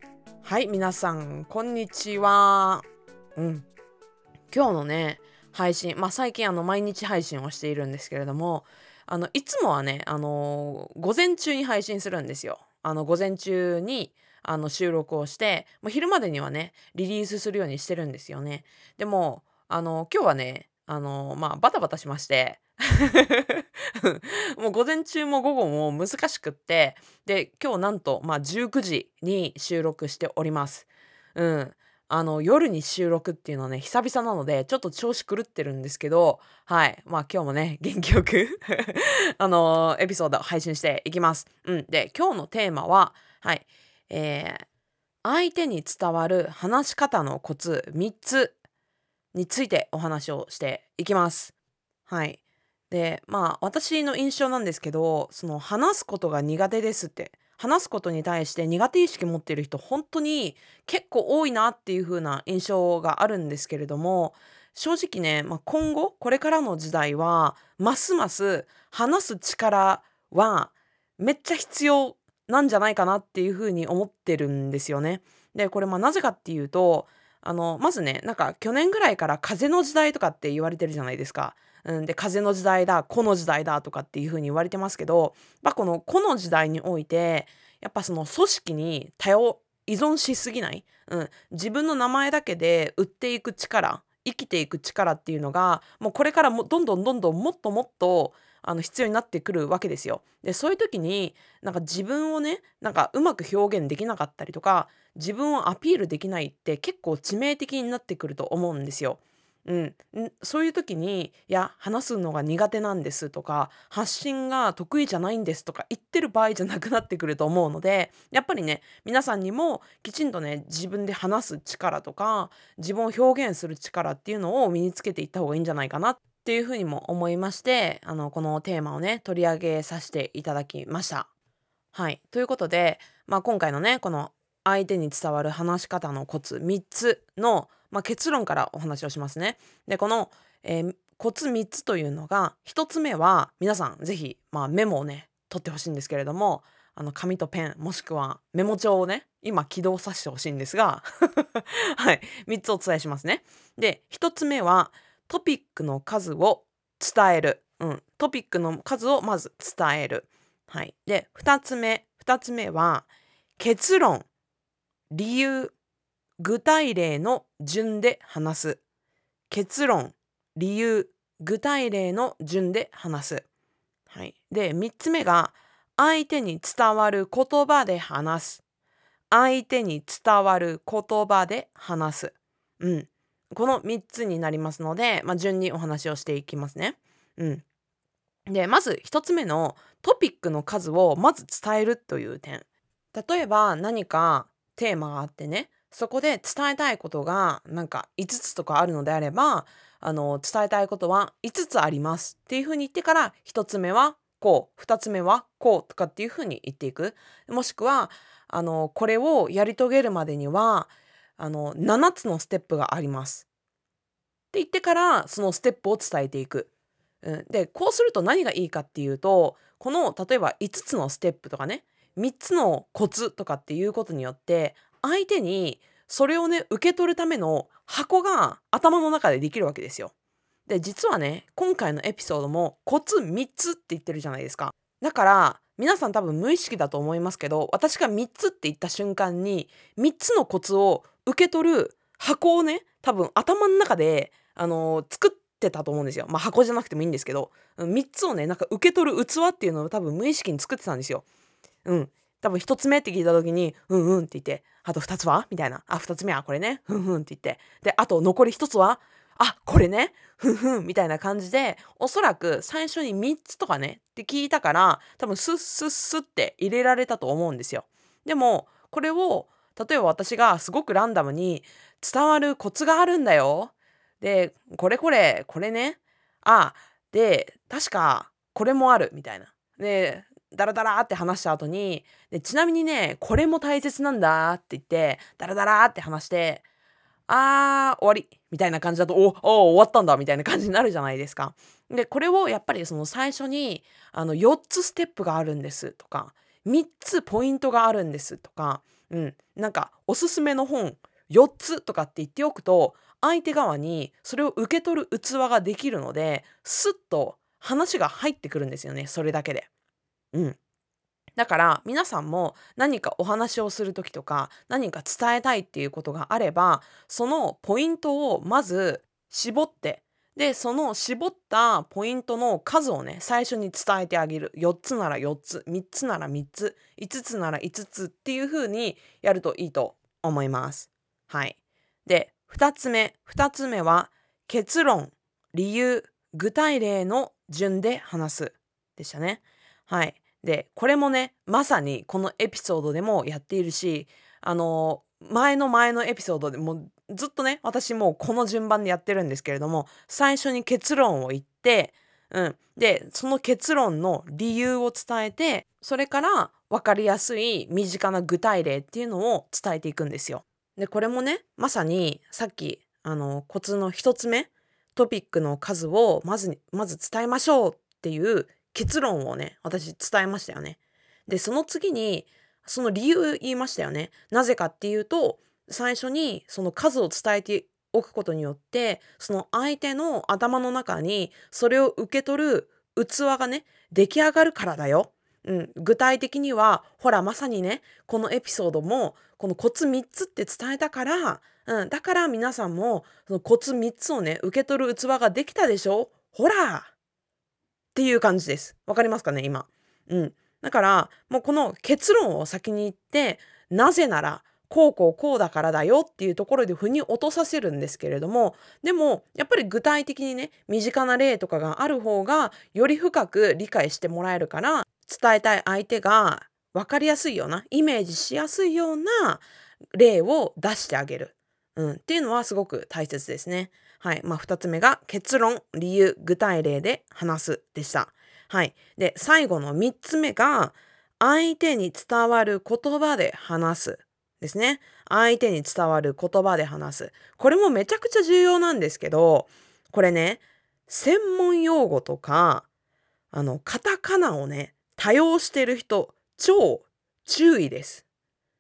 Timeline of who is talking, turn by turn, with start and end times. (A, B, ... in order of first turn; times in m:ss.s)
0:00.4-0:02.8 A
0:03.4-0:03.7 A
0:04.5-0:44.6 A
0:45.2-0:48.6 A
0:49.3-0:51.5 A
0:52.1-2:11.3 A
2:11.9-2:43.1 A
2:43.6-2:44.3 A
2:45.1-2:45.7 A
2:46.4-2:48.8 A
2:49.5-2:53.5 A
2:54.1-2:58.6 A
2:59.3-3:07.6 A
3:08.5-3:33.5 A
3:34.5-3:36.7 A
3:37.2-3:50.1 A
3:50.7-4:11.2 A
4:11.8-4:46.6 A
4:47.3-5:09.7 A
5:11.4-6:36.9 A
6:38.0-7:22.7 A
7:23.3-7:28.0 A